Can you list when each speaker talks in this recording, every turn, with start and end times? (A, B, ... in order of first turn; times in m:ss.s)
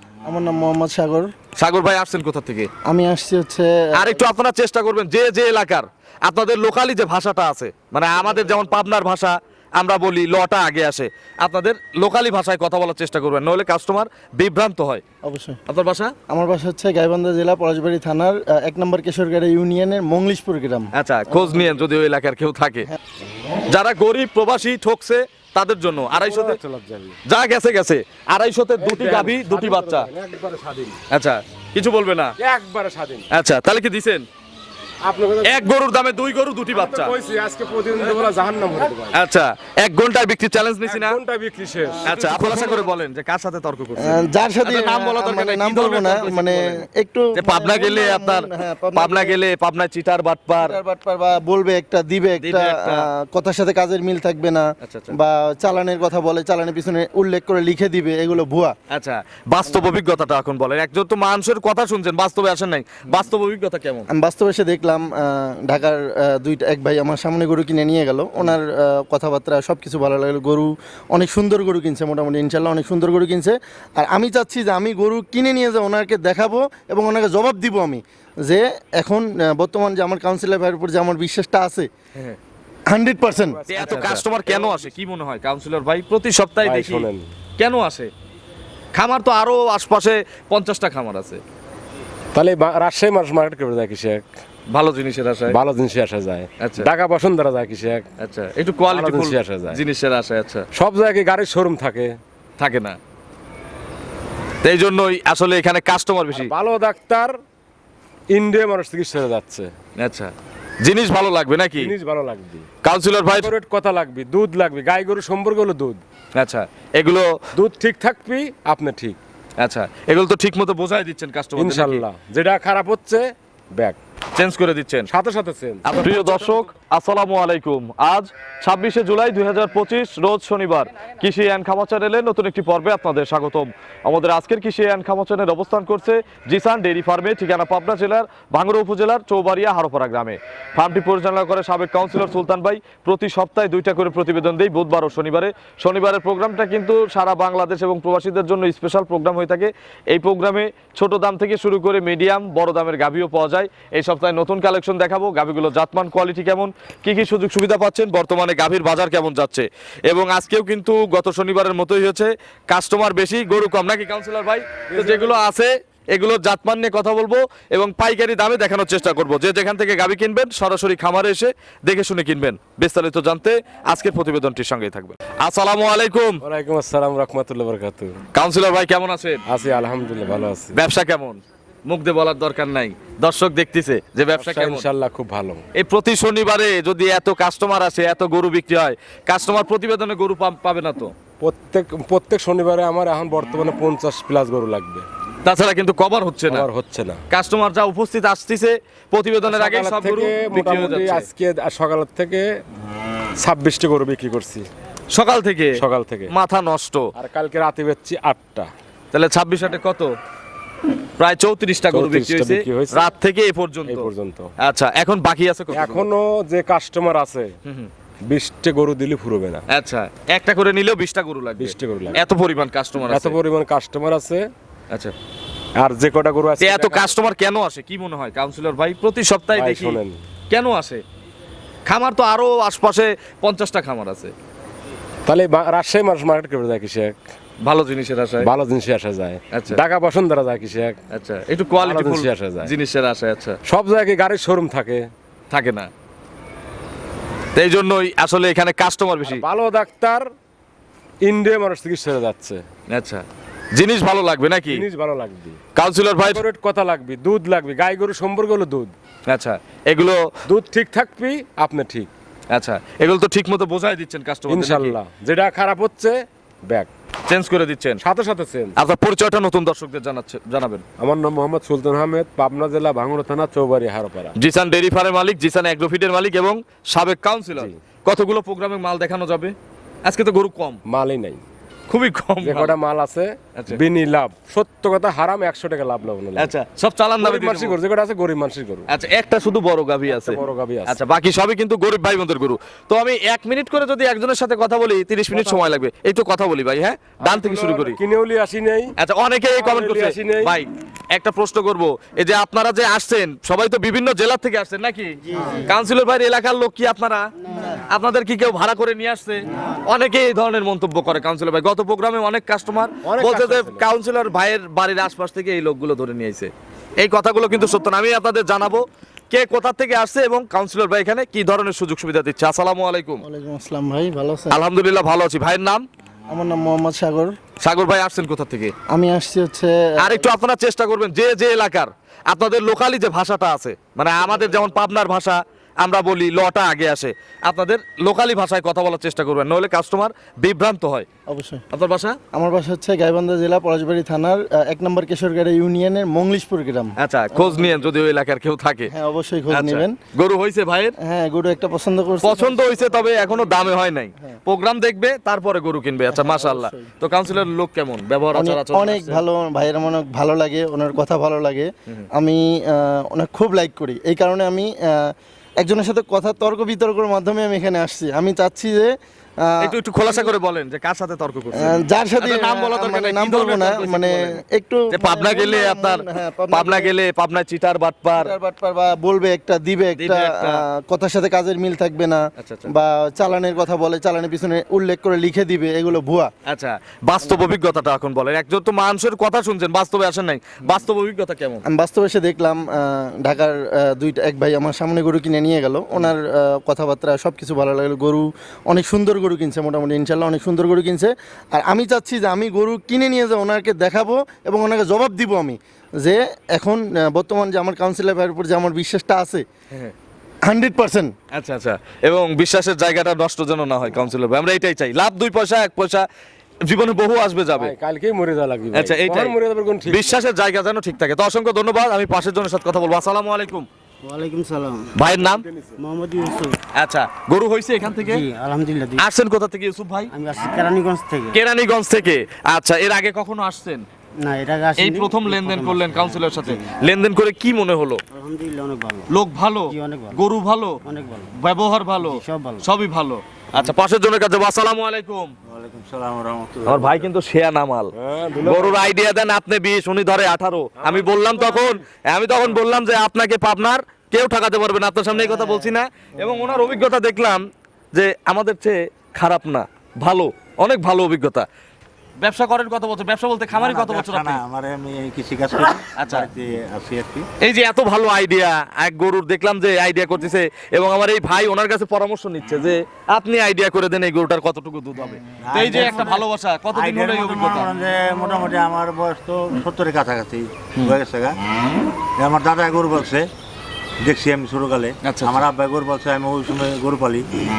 0:00.2-0:01.3 A
0:01.6-0:02.7 B
0:02.9-0:04.2 A
0:03.9-0:15.0 B
0:15.2-0:15.6 A
0:15.7-0:16.1 B
0:16.3-0:21.7 A
0:20.9-0:22.9 B
0:23.7-0:26.6 B
0:26.2-0:27.2 C
0:27.3-0:30.1 B
0:28.8-0:31.0 C
0:31.1-0:32.3 B
0:32.4-0:33.3 C
0:33.3-0:34.3 B
0:35.0-0:35.6 C
0:35.4-0:37.2 B
0:36.7-0:39.2 C
0:39.1-0:41.2 B
0:40.8-0:42.3 C
0:42.0-0:46.8 B
0:42.2-0:42.7 A
0:44.0-0:49.4 A
0:47.4-0:50.8 B
0:50.6-0:58.8 A
0:52.4-0:53.1 B
0:54.8-0:55.2 B
0:58.9-1:04.1 B
1:04.1-1:21.9 A
1:22.9-1:24.2 A
1:23.5-1:25.0 C
1:23.7-1:27.1 B
1:26.6-1:27.3 C
1:27.6-1:28.1 B
1:28.9-1:31.4 B
1:32.3-1:34.3 C
1:34.7-1:35.6 B
1:35.5-1:38.1 C
1:36.6-1:36.9 B
1:38.2-1:40.7 B
1:38.9-1:39.8 C
1:40.7-1:42.2 C
1:42.6-1:43.0 B
1:44.6-1:46.5 B
1:46.3-1:47.4 C
1:48.3-1:49.7 C
1:50.0-1:50.3 B
1:50.8-1:51.9 B
1:51.8-1:52.7 C
1:52.8-1:53.5 B
1:53.3-1:56.0 C
1:56.4-1:57.4 B
1:57.5-1:59.2 C
1:59.6-2:02.0 B
2:01.6-2:04.0 C
2:04.4-2:05.1 B
2:05.1-2:06.7 C
2:05.8-2:56.4 B
2:44.9-2:45.4 C
2:56.4-2:58.2 C
2:58.4-2:59.4 B
2:59.5-3:00.8 C
3:00.7-3:04.9 B
3:04.3-3:05.6 C
3:05.8-3:11.1 B
3:11.4-3:15.1 C
3:15.4-3:16.7 B
3:16.5-3:17.2 C
3:17.3-3:21.3 B
3:19.4-3:22.6 C
3:23.4-3:24.7 C
3:25.1-3:27.1 B
3:25.8-3:26.3 C
3:27.2-3:28.7 C
3:29.1-3:30.1 B
3:31.2-3:34.1 B
3:31.9-3:33.0 C
3:33.9-3:34.5 C
3:34.6-3:36.1 B
3:35.7-3:37.5 C
3:38.3-3:39.6 C
3:39.7-3:43.4 B
3:41.6-3:42.2 C
3:43.1-3:44.5 C
3:45.8-3:47.1 C
3:46.6-3:51.0 B
3:49.5-3:50.2 C
3:51.9-3:54.3 B
3:55.3-3:57.3 C
3:57.6-3:58.5 B
3:58.4-4:01.0 C
3:59.5-3:59.8 B
4:01.1-4:03.6 B
4:01.8-4:02.7 C
4:03.7-4:05.1 C
4:05.5-4:05.9 B
4:07.6-4:09.4 B
4:09.2-4:10.3 C
4:11.2-4:12.6 C
4:12.9-4:14.8 B
4:14.7-4:15.6 C
4:15.8-4:16.4 B
4:16.2-4:18.9 C
4:19.3-4:20.3 B
4:20.5-4:22.1 C
4:22.5-4:25.0 B
4:24.5-4:26.9 C
4:27.3-4:28.0 B
4:28.0-4:28.8 C
4:28.8-4:30.8 B
4:31.0-4:34.4 C
4:34.4-4:40.8 B
4:40.9-4:41.4 C
4:41.9-4:42.8 B
4:42.4-4:46.6 C
4:43.6-4:43.8 B
4:46.4-4:47.8 B
4:47.2-4:48.9 C
4:48.9-4:58.0 B
4:50.1-4:51.0 C
4:55.3-4:55.8 C
4:57.2-4:58.9 C
4:59.0-5:07.3 B
4:59.6-5:00.6 C
5:05.3-5:05.7 D
5:07.4-5:07.8 D
5:07.9-5:23.2 B
5:13.0-5:13.9 C
5:23.2-5:24.6 A
5:24.5-5:25.9 B
5:26.3-5:27.4 A
5:27.6-5:28.7 B
5:28.9-5:30.3 A
5:30.0-5:41.1 B
5:41.3-5:41.6 A
5:41.7-5:42.2 B
5:42.3-5:47.8 A
5:47.0-5:48.9 B
5:48.9-5:50.0 A
5:49.5-5:51.0 B
5:51.0-5:53.5 A
5:52.2-5:59.2 B
5:56.1-5:56.9 A
5:58.3-6:10.3 A
6:09.6-6:14.4 B
6:11.5-6:16.9 A
6:14.9-6:18.3 B
6:18.1-6:26.3 A
6:20.0-6:20.6 B
6:22.4-6:22.7 B
6:26.5-6:31.6 B
6:31.7-6:49.4 A
6:50.5-6:51.1 A
6:51.3-6:56.1 B
6:56.6-6:57.7 B
6:57.6-7:00.2 C
6:58.7-6:59.4 B
6:59.9-7:03.7 B
7:04.0-7:04.9 D
7:05.0-7:05.4 B
7:05.0-7:05.8 C
7:05.8-7:06.6 D
7:06.8-7:08.2 B
7:08.0-7:09.0 D
7:09.0-7:10.1 B
7:10.1-7:11.4 D
7:11.3-7:13.9 B
7:14.2-7:16.6 D
7:14.8-7:18.0 B
7:18.1-7:19.1 D
7:19.1-7:20.8 B
7:19.7-7:20.2 D
7:20.8-7:21.3 D
7:21.4-7:25.3 B
7:22.0-7:22.6 D
7:25.5-7:27.1 E
7:26.7-7:27.9 B
7:28.0-7:29.0 C
7:28.4-7:41.5 B
7:30.8-7:31.8 C
7:42.2-7:44.4 B
7:43.5-7:47.3 E
7:46.0-7:46.3 B
7:47.4-7:57.7 B
7:55.4-8:01.3 E
8:02.2-8:03.3 E
8:04.0-8:07.3 E
8:05.0-8:05.4 B